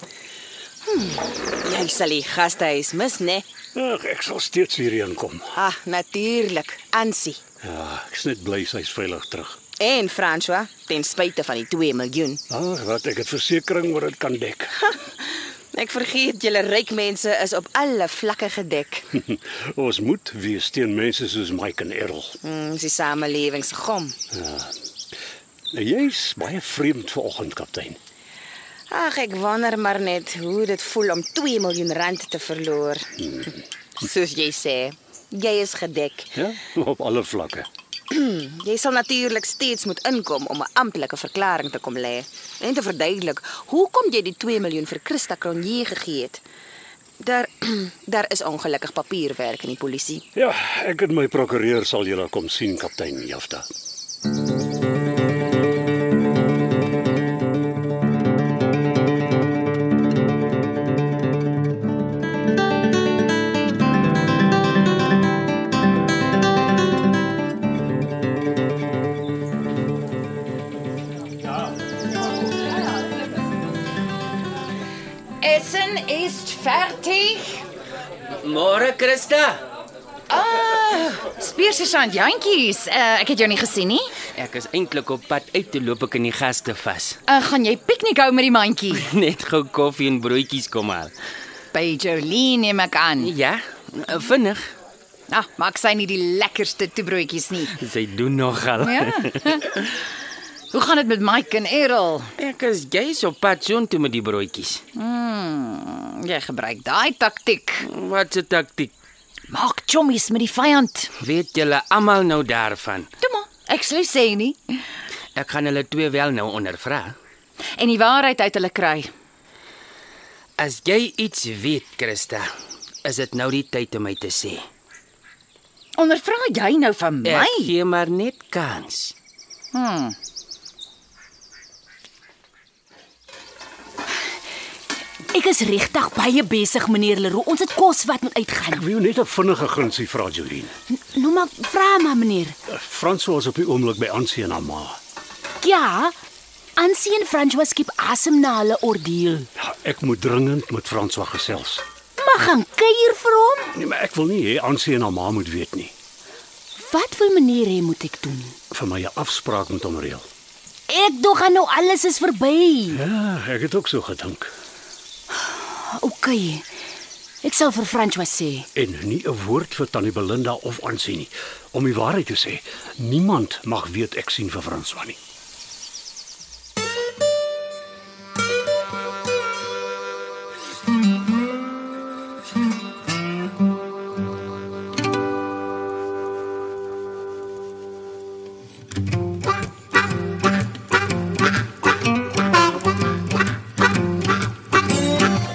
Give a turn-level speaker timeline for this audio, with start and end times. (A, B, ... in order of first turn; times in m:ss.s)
0:00.8-0:03.4 A
0:03.7-0:05.5 B
0:05.5-0:07.4 A
0:07.6-0:09.6 B
0:09.8-0:12.4 A
0:12.5-0:14.8 B
0:15.7-0:19.1 A
0:19.1-0:22.4 B
0:22.4-0:24.2 A
0:24.3-0:24.7 B
0:25.7-0:28.0 B
0:28.9-0:36.3 A
0:36.3-0:37.7 B
0:38.1-0:46.4 A
0:47.2-0:50.2 A
0:50.3-0:53.7 B
1:15.4-1:17.6 C
1:18.4-1:19.6 D
1:20.3-1:24.1 C
1:24.4-1:27.2 D
1:27.3-1:29.1 C
1:28.9-1:31.1 D
1:31.7-1:33.3 C
1:33.2-1:34.7 D
1:35.3-1:37.8 C
1:37.7-1:39.9 D
1:38.8-1:39.6 C
1:40.7-1:42.3 C
1:42.4-1:44.8 D
1:44.9-1:47.8 C
1:47.8-1:48.9 D
1:49.5-1:51.1 C
1:51.2-1:53.1 D
1:53.2-1:54.8 C
1:55.4-1:57.2 D
1:57.8-1:59.1 C
2:00.6-2:02.5 D
2:03.0-2:04.6 D
2:06.0-2:07.7 C
2:07.2-2:09.1 D
2:09.7-2:10.2 C
2:15.3-2:18.8 E
2:18.7-2:20.7 B
2:21.1-2:22.5 E
2:22.7-2:25.0 B
2:25.6-2:26.1 E
2:26.8-2:29.5 E
2:29.6-2:31.8 B
2:32.2-2:33.7 E
2:33.7-2:35.9 B
2:36.8-2:38.5 E
2:38.7-2:40.2 B
2:40.9-2:43.0 E
2:42.9-2:44.5 B
2:45.8-2:46.6 E
2:47.4-2:48.6 E
2:48.7-2:55.2 B